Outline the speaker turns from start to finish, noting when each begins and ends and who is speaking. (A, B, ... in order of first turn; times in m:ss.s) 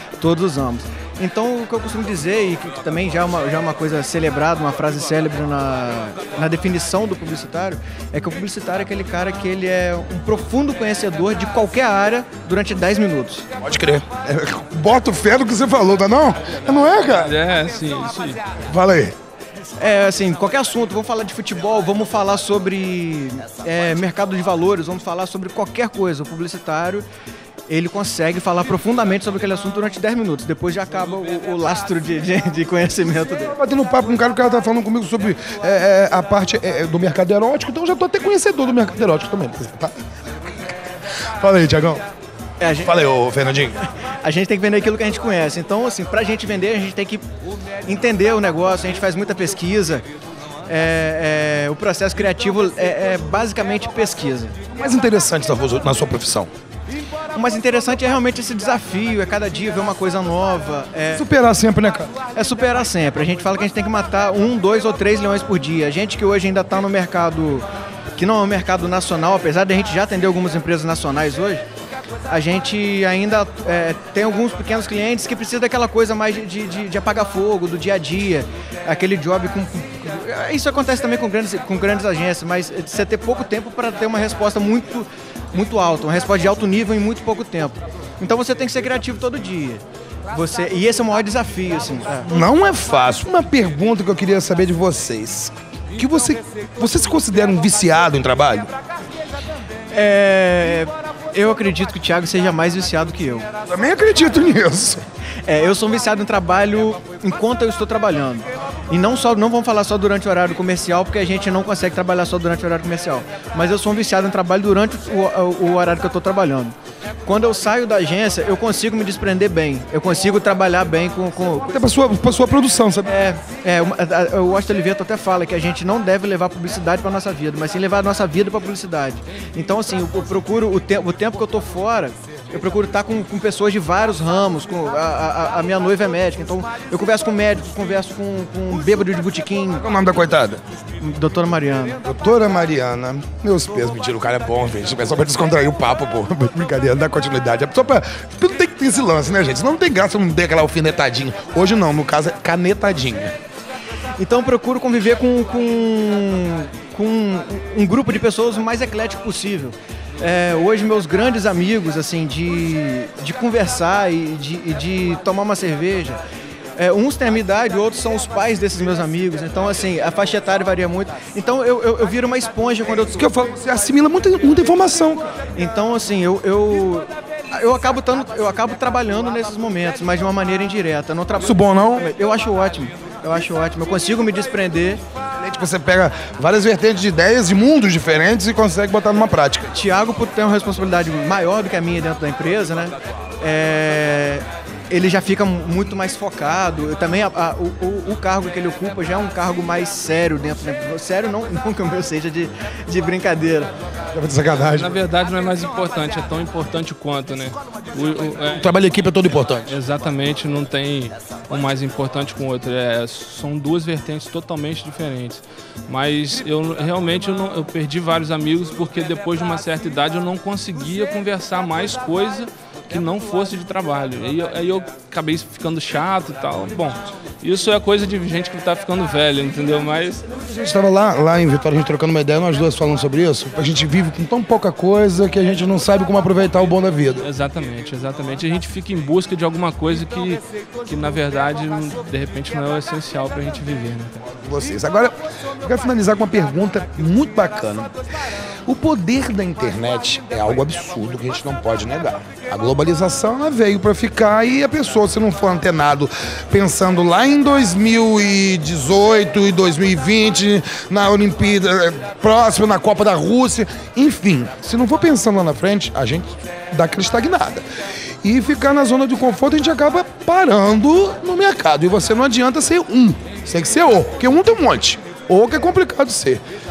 0:00.2-0:13.4 A
0:13.6-0:17.3 B
0:17.1-0:18.4 C
0:18.6-0:19.2 B
0:19.8-0:27.0 A
0:27.7-0:33.6 A
0:33.5-0:42.0 B
0:42.6-0:42.9 A
0:42.8-0:43.8 B
0:44.0-0:47.2 A
0:47.9-0:50.0 A
0:50.7-0:54.6 A
0:54.7-0:56.5 B
0:57.3-1:01.2 A
1:01.1-1:02.1 B
1:02.3-1:11.6 A
1:12.3-1:32.3 A
1:32.3-1:38.7 B
1:39.9-1:43.5 A
1:43.6-1:45.0 B
1:45.4-2:01.7 A
2:01.7-2:03.1 B
2:03.0-2:19.8 A
2:19.8-2:20.6 B
2:21.0-2:22.0 A
2:22.0-2:33.3 B
2:34.2-2:46.2 A
2:46.8-2:53.2 A
2:53.1-2:55.4 B
2:55.6-3:05.0 A
3:01.4-3:02.0 B
3:05.4-3:09.8 B
3:09.7-3:23.7 A
3:24.1-3:24.9 B
3:24.5-3:28.6 C
3:28.5-3:29.7 B
3:29.7-3:50.2 C
3:50.3-3:57.2 B
3:57.2-4:04.2 C
4:04.4-4:07.9 B
4:08.6-4:27.6 B
4:28.2-4:36.4 B